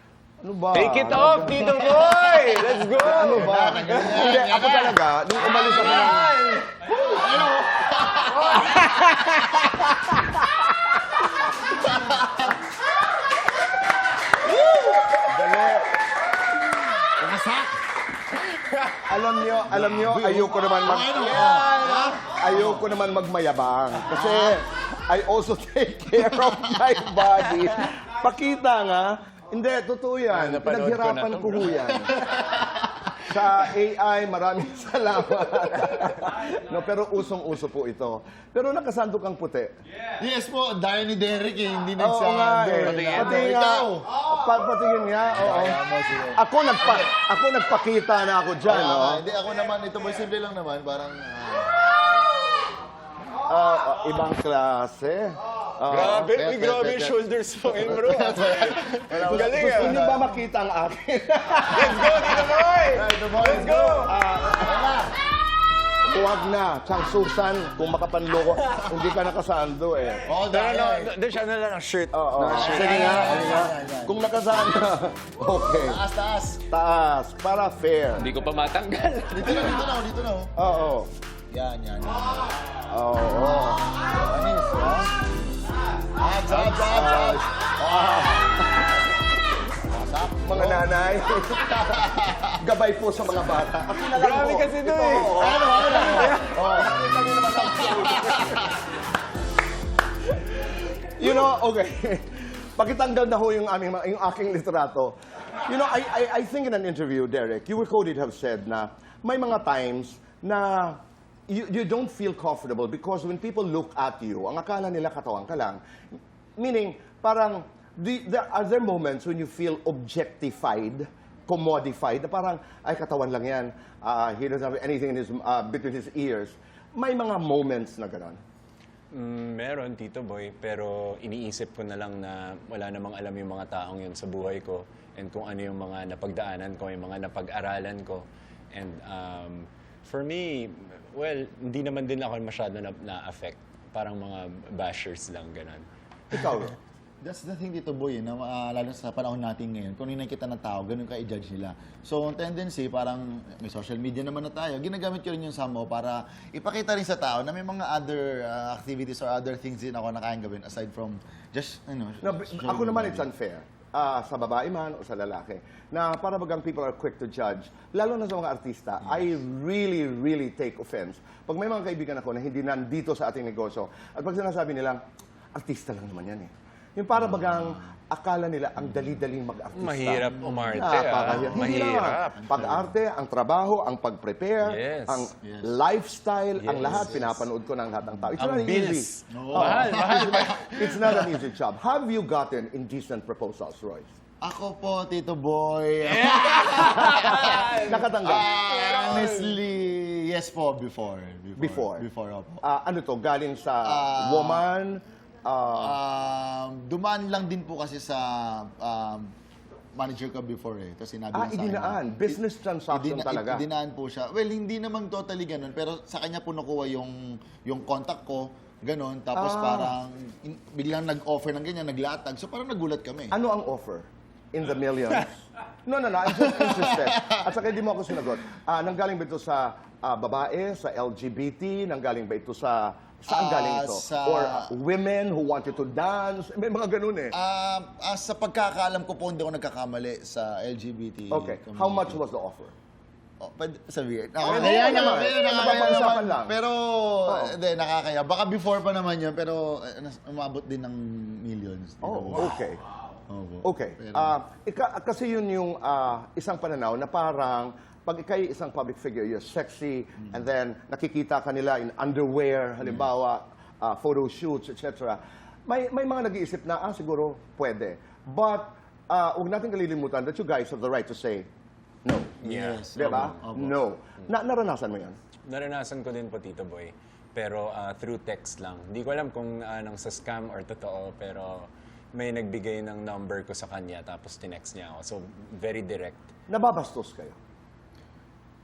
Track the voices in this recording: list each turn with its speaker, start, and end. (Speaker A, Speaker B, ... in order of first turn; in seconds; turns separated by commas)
Speaker A: 0.4-6.3, Speaker B: 0.7-4.1, Speaker C: 3.1-6.3, Speaker B: 5.6-6.8, Speaker C: 7.0-8.8, Speaker B: 8.4-10.9, Speaker C: 11.6-12.6, Speaker A: 15.1-15.9, Speaker C: 17.0-17.9, Speaker A: 19.0-32.2, Speaker C: 19.7-22.4, Speaker B: 21.3-22.2, Speaker C: 24.1-24.6, Speaker B: 30.3-31.9, Speaker C: 32.0-33.0, Speaker A: 33.2-39.7, Speaker C: 40.2-44.1, Speaker A: 42.0-45.8, Speaker B: 42.8-43.5, Speaker C: 45.2-47.1, Speaker A: 46.4-49.2, Speaker C: 48.6-52.0, Speaker A: 53.4-57.1, Speaker B: 55.9-60.1, Speaker C: 56.4-56.9, Speaker C: 57.7-60.4, Speaker A: 59.1-62.7, Speaker B: 61.6-64.1, Speaker C: 62.6-65.2, Speaker A: 64.0-65.0, Speaker A: 66.1-70.3, Speaker C: 70.2-71.2, Speaker B: 70.5-73.7, Speaker A: 72.1-76.0, Speaker C: 72.4-74.2, Speaker C: 75.8-76.6, Speaker A: 76.7-78.3, Speaker B: 78.2-79.8, Speaker C: 79.3-80.5, Speaker A: 80.5-81.1, Speaker C: 81.5-82.5, Speaker A: 82.9-83.9, Speaker C: 83.4-85.2, Speaker C: 86.2-88.5, Speaker A: 86.5-89.0, Speaker C: 89.8-91.0, Speaker A: 90.4-98.8, Speaker C: 91.6-92.6, Speaker B: 94.0-95.4, Speaker C: 95.3-97.0, Speaker B: 96.0-96.5, Speaker C: 97.6-98.7, Speaker A: 100.6-115.8, Speaker A: 116.6-128.4, Speaker B: 129.1-145.8, Speaker A: 146.3-146.8, Speaker C: 147.2-163.3, Speaker A: 162.2-175.0, Speaker A: 175.5-194.1, Speaker B: 179.7-182.4, Speaker C: 180.3-180.8, Speaker C: 182.4-182.9, Speaker B: 184.6-185.3, Speaker C: 185.4-185.7, Speaker B: 186.6-187.1, Speaker C: 186.8-187.4, Speaker B: 188.4-190.6, Speaker C: 189.3-191.3, Speaker C: 194.4-202.6, Speaker B: 196.1-199.6, Speaker A: 197.1-198.6, Speaker A: 201.6-202.1, Speaker A: 202.6-206.0, Speaker C: 203.8-204.7, Speaker C: 205.8-209.3, Speaker C: 209.9-212.4, Speaker A: 211.3-213.6, Speaker C: 212.9-223.3, Speaker A: 219.3-219.9, Speaker A: 223.3-237.3, Speaker C: 226.4-227.4, Speaker C: 233.3-234.7, Speaker C: 237.3-242.2, Speaker A: 241.3-242.7, Speaker C: 243.4-252.7, Speaker A: 244.4-246.6, Speaker A: 247.3-247.5, Speaker A: 252.0-252.8, Speaker C: 253.3-254.3, Speaker A: 253.6-271.5, Speaker C: 262.8-263.1, Speaker A: 272.0-275.2, Speaker B: 272.4-273.4, Speaker C: 272.4-273.8, Speaker B: 275.5-286.2, Speaker A: 286.5-287.4